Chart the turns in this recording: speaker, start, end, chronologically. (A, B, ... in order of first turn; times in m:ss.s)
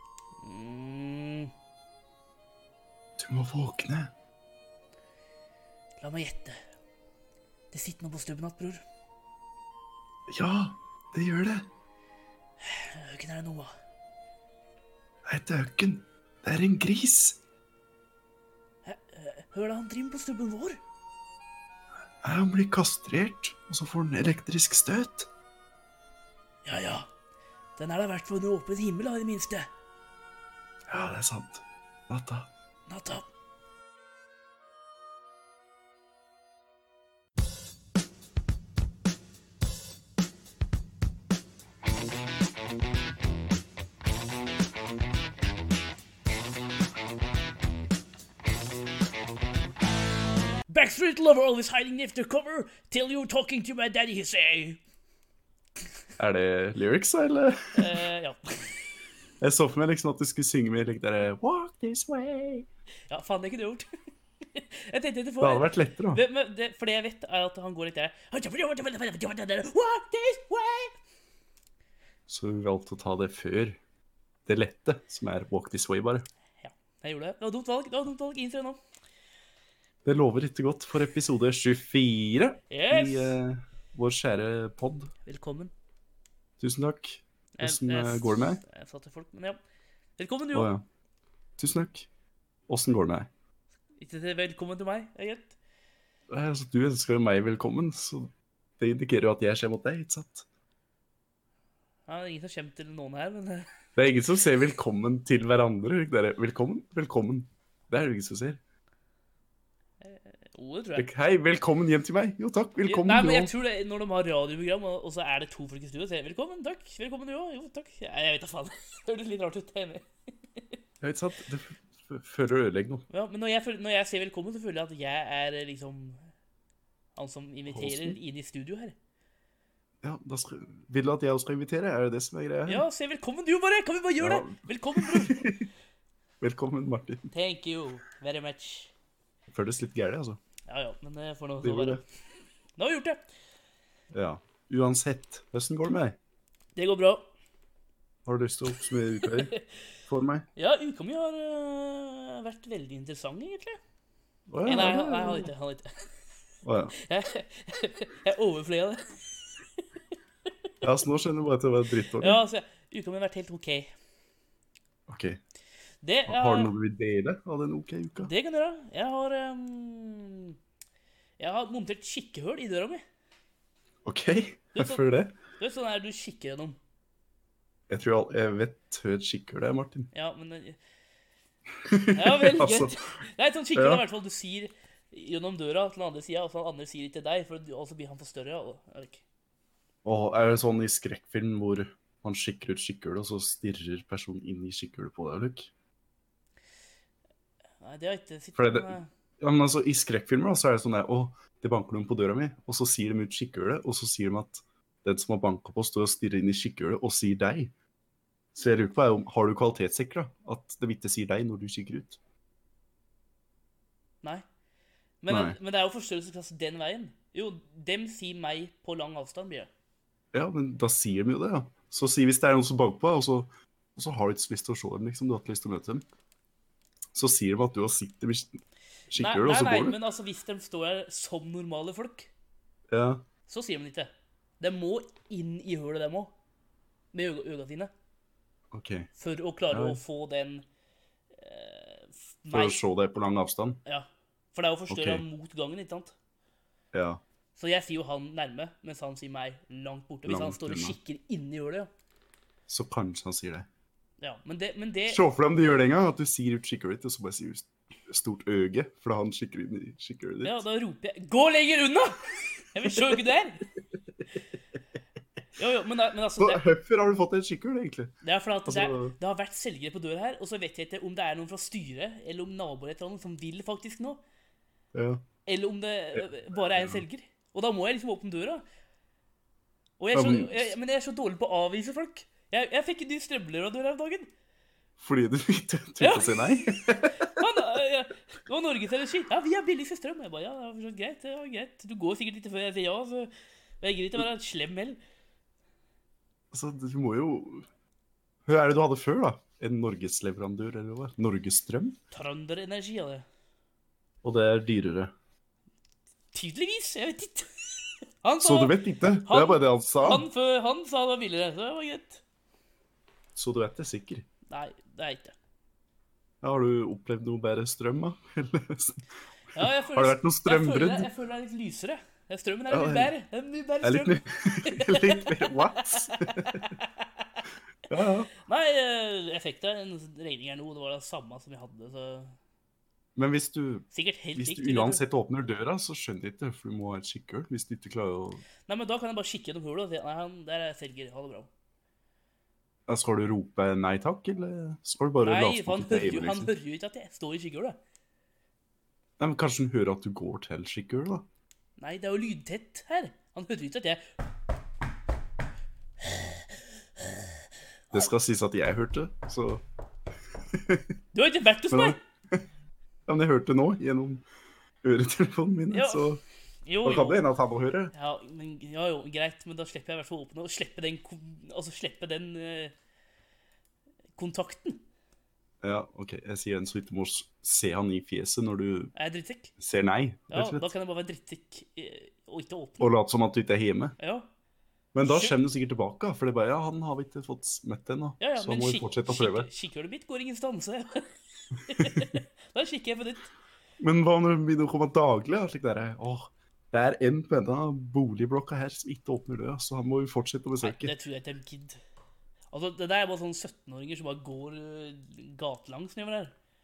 0:00.4-0:01.5 A
0:03.2-0:04.1 B
0:06.0-0:06.6 A
0:07.7-0:08.8 A
0:10.3-0:11.6 B
0:12.6-0:13.7 A
0:15.2-0:17.4 B
0:18.8-0:20.8 A
0:22.2-0:25.3 B
0:26.6-0:27.1 A
0:27.8-0:29.7 A
0:30.9-0:32.5 B
0:32.9-0:33.3 A
0:50.7-0:54.8 A
0:56.2-0:58.0 B
0:57.7-0:58.8 A
0:59.4-1:02.7 B
1:03.1-1:03.9 A
1:04.5-1:10.9 A
1:05.4-1:06.2 B
1:12.3-1:13.8 B
1:14.4-1:16.2 B
1:16.6-1:18.8 A
1:20.0-1:25.1 B
1:22.7-1:23.4 A
1:25.2-1:25.7 A
1:26.6-1:28.6 B
1:27.6-1:29.6 A
1:30.2-1:30.7 A
1:30.5-1:30.8 B
1:31.6-1:32.1 B
1:32.7-1:33.3 B
1:34.0-1:35.5 A
1:36.3-1:40.4 B
1:42.1-1:43.7 A
1:44.0-1:48.6 B
1:50.0-1:51.1 A
1:51.0-1:53.5 B
1:52.8-2:00.0 A
2:01.0-2:03.0 B
2:03.1-2:06.2 A
2:07.2-2:09.0 A
2:07.7-2:08.2 B
2:10.0-2:12.8 B
2:12.6-2:15.5 A
2:14.2-2:15.6 B
2:16.4-2:17.3 B
2:17.3-2:18.9 A
2:19.5-2:20.4 B
2:20.7-2:22.0 A
2:21.6-2:22.0 B
2:22.8-2:23.2 A
2:24.1-2:26.2 B
2:26.8-2:27.2 A
2:28.2-2:29.5 B
2:29.2-2:29.6 A
2:30.1-2:30.5 B
2:30.6-2:33.8 A
2:34.5-2:35.5 B
2:34.6-2:35.9 A
2:36.6-2:36.9 B
2:37.0-2:39.1 A
2:40.8-2:42.4 B
2:42.2-2:43.9 A
2:45.1-2:45.4 B
2:46.0-2:46.7 A
2:46.3-2:48.3 B
2:48.2-2:50.6 A
2:51.4-2:53.0 A
2:54.0-2:55.3 B
2:54.7-2:55.0 A
2:55.6-2:56.8 A
2:57.9-3:00.1 B
3:00.1-3:00.8 A
3:01.8-3:03.0 B
3:02.1-3:09.2 A
3:03.7-3:04.0 B
3:10.0-3:15.7 B
3:17.8-3:19.1 A
3:18.6-3:27.7 B
3:28.5-3:32.2 B
3:35.2-3:39.7 A
3:35.3-3:35.6 B
3:40.3-3:46.0 B
3:47.1-3:48.6 B
3:49.1-3:50.0 B
3:49.1-3:52.3 A
3:52.9-3:53.2 B
3:53.5-3:56.3 A
3:57.1-3:57.9 A
3:58.7-3:59.1 B
3:59.2-4:00.6 A
3:59.7-4:00.0 B
4:01.4-4:02.8 A
4:02.5-4:03.8 B
4:03.8-4:06.1 A
4:04.9-4:05.2 B
4:06.9-4:07.2 B
4:07.6-4:11.9 A
4:10.2-4:11.0 B
4:12.7-4:13.7 B
4:14.2-4:15.2 A
4:15.1-4:20.6 B
4:20.4-4:22.2 A
4:22.7-4:23.6 A
4:22.9-4:23.2 B
4:25.6-4:26.6 A
4:26.4-4:29.1 B
4:28.2-4:34.2 A
4:34.9-4:35.2 B
4:35.5-4:38.6 A
4:36.8-4:37.0 B
4:40.0-4:44.3 A
4:40.1-4:40.7 B
4:45.0-4:47.3 B
4:46.0-4:53.3 A
4:53.8-4:55.0 A
4:56.5-4:57.6 B
4:58.4-5:02.0 B
5:02.1-5:03.2 A
5:04.2-5:05.1 B
5:06.3-5:12.2 A
5:08.4-5:10.3 B
5:13.3-5:14.2 B
5:14.5-5:15.3 A
5:16.4-5:19.1 B
5:19.5-5:27.0 A
5:19.9-5:21.1 B
5:22.7-5:23.1 B
5:23.8-5:26.7 B
5:27.9-5:28.3 B
5:28.4-5:32.3 A
5:33.2-5:38.4 B
5:33.9-5:35.0 A
5:38.7-5:41.5 A
5:42.9-5:46.5 B
5:45.2-5:47.8 A
5:49.2-5:51.2 B
5:51.8-5:54.0 A
5:57.9-5:59.6 B
6:00.5-6:00.9 B
6:01.1-6:02.0 A
6:01.7-6:02.4 B
6:03.1-6:04.2 B
6:04.8-6:06.2 B
6:05.7-6:06.0 A
6:06.6-6:07.2 A
6:06.8-6:07.9 B
6:07.9-6:12.7 A
6:14.2-6:14.8 A
6:15.6-6:18.9 B
6:18.9-6:19.5 A
6:19.6-6:20.7 B
6:20.3-6:22.9 A
6:22.8-6:24.0 B
6:24.0-6:24.2 A
6:24.9-6:29.5 B
6:25.0-6:25.4 A
6:28.2-6:31.1 A
6:31.6-6:33.3 A
6:33.8-6:40.9 B
6:40.6-6:41.8 A
6:42.5-6:46.3 A